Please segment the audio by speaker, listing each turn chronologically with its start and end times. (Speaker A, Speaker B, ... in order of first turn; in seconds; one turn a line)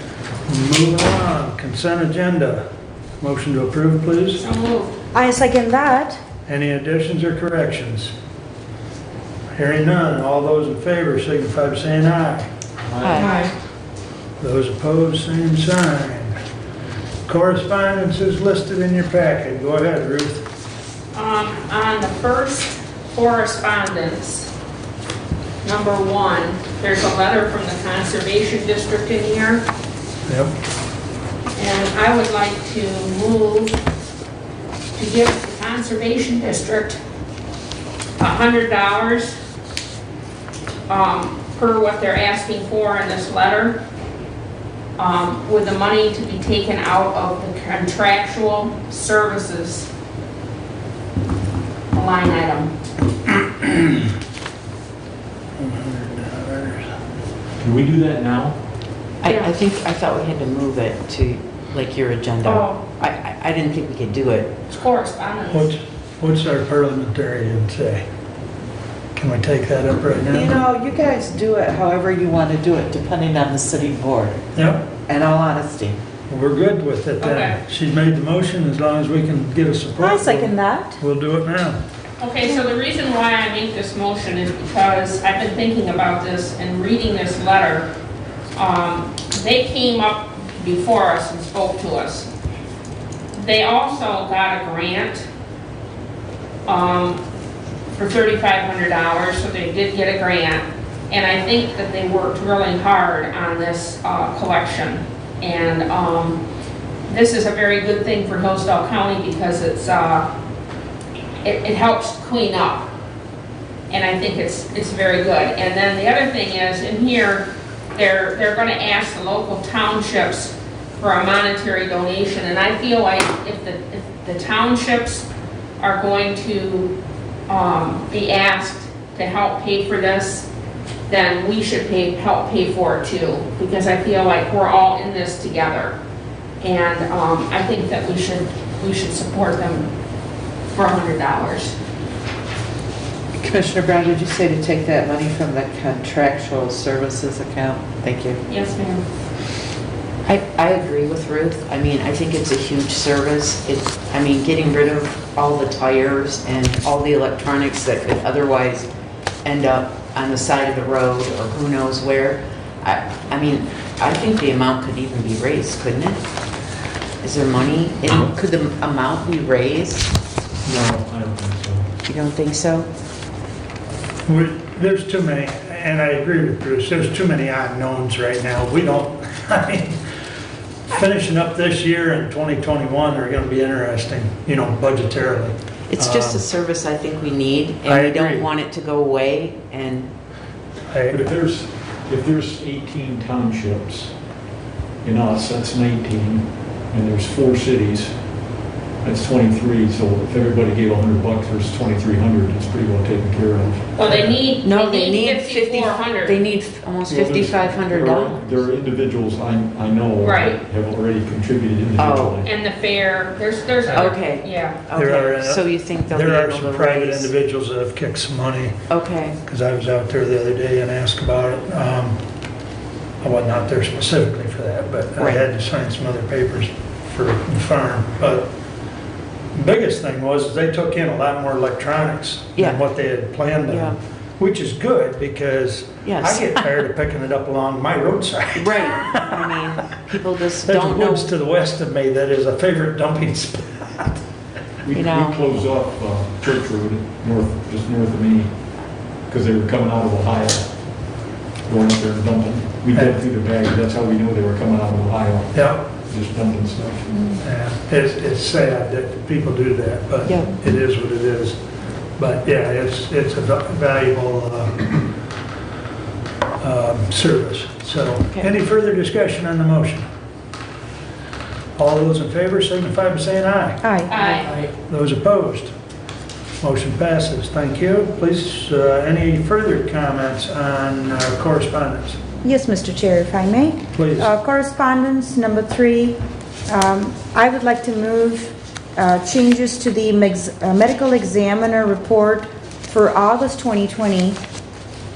Speaker A: 0.5-2.6
Speaker A: 3.2-4.4
Speaker B: 4.4-4.9
Speaker C: 5.1-6.2
Speaker A: 6.5-8.1
Speaker A: 9.6-12.5
Speaker D: 12.8-13.3
Speaker E: 13.0-13.5
Speaker B: 13.2-13.5
Speaker A: 14.4-16.4
Speaker A: 17.3-20.5
Speaker B: 21.1-24.5
Speaker B: 25.6-29.6
Speaker A: 30.3-30.5
Speaker B: 31.6-33.8
Speaker B: 35.0-37.0
Speaker B: 38.2-39.4
Speaker B: 40.9-43.8
Speaker B: 45.0-49.9
Speaker B: 51.9-52.7
Speaker A: 53.5-54.0
Speaker A: 55.6-56.9
Speaker D: 57.6-58.6
Speaker E: 59.2-64.5
Speaker B: 59.2-59.5
Speaker B: 62.4-62.8
Speaker B: 64.7-65.7
Speaker A: 65.5-68.0
Speaker A: 69.2-70.6
Speaker F: 70.1-74.4
Speaker A: 74.5-74.8
Speaker F: 75.0-76.0
Speaker A: 76.3-81.8
Speaker B: 77.2-77.6
Speaker C: 80.0-81.0
Speaker B: 82.2-87.9
Speaker B: 88.6-92.3
Speaker B: 93.3-95.2
Speaker B: 96.7-97.2
Speaker B: 98.0-106.4
Speaker B: 107.1-110.3
Speaker B: 111.4-112.9
Speaker B: 113.9-125.3
Speaker B: 125.8-126.9
Speaker B: 127.5-130.5
Speaker B: 131.1-136.0
Speaker B: 136.6-139.9
Speaker B: 140.7-141.8
Speaker F: 143.4-148.4
Speaker B: 148.5-149.0
Speaker E: 150.3-158.9
Speaker E: 159.4-166.2
Speaker E: 167.2-170.1
Speaker D: 170.7-171.9
Speaker E: 172.1-172.9
Speaker A: 174.3-180.0
Speaker A: 180.9-186.4
Speaker E: 185.9-190.1
Speaker A: 187.8-188.5
Speaker A: 190.9-191.2
Speaker D: 191.1-194.1
Speaker D: 195.0-198.2
Speaker D: 199.0-204.4
Speaker B: 204.0-206.4
Speaker E: 204.6-208.6
Speaker D: 207.1-212.5
Speaker B: 210.2-210.6
Speaker E: 212.0-212.4
Speaker B: 212.4-214.8
Speaker E: 213.9-217.3
Speaker A: 214.9-218.8
Speaker E: 218.9-219.4
Speaker A: 219.4-222.2
Speaker A: 223.2-228.5
Speaker A: 229.5-239.3
Speaker E: 232.6-232.8
Speaker E: 233.7-234.0
Speaker E: 236.1-236.7
Speaker E: 238.6-241.3
Speaker A: 240.6-244.2
Speaker D: 244.8-248.5
Speaker E: 244.9-245.4
Speaker D: 249.3-250.7
Speaker D: 251.7-257.1
Speaker A: 255.5-255.8
Speaker C: 257.1-257.4
Speaker A: 257.4-261.6
Speaker E: 260.2-260.5
Speaker A: 262.2-265.0
Speaker A: 266.6-270.1
Speaker A: 271.8-273.8
Speaker C: 273.8-274.1
Speaker B: 274.1-274.7
Speaker E: 274.2-274.5
Speaker A: 274.7-275.7
Speaker A: 276.6-282.2
Speaker C: 282.4-286.2
Speaker A: 283.9-284.3
Speaker C: 286.7-294.4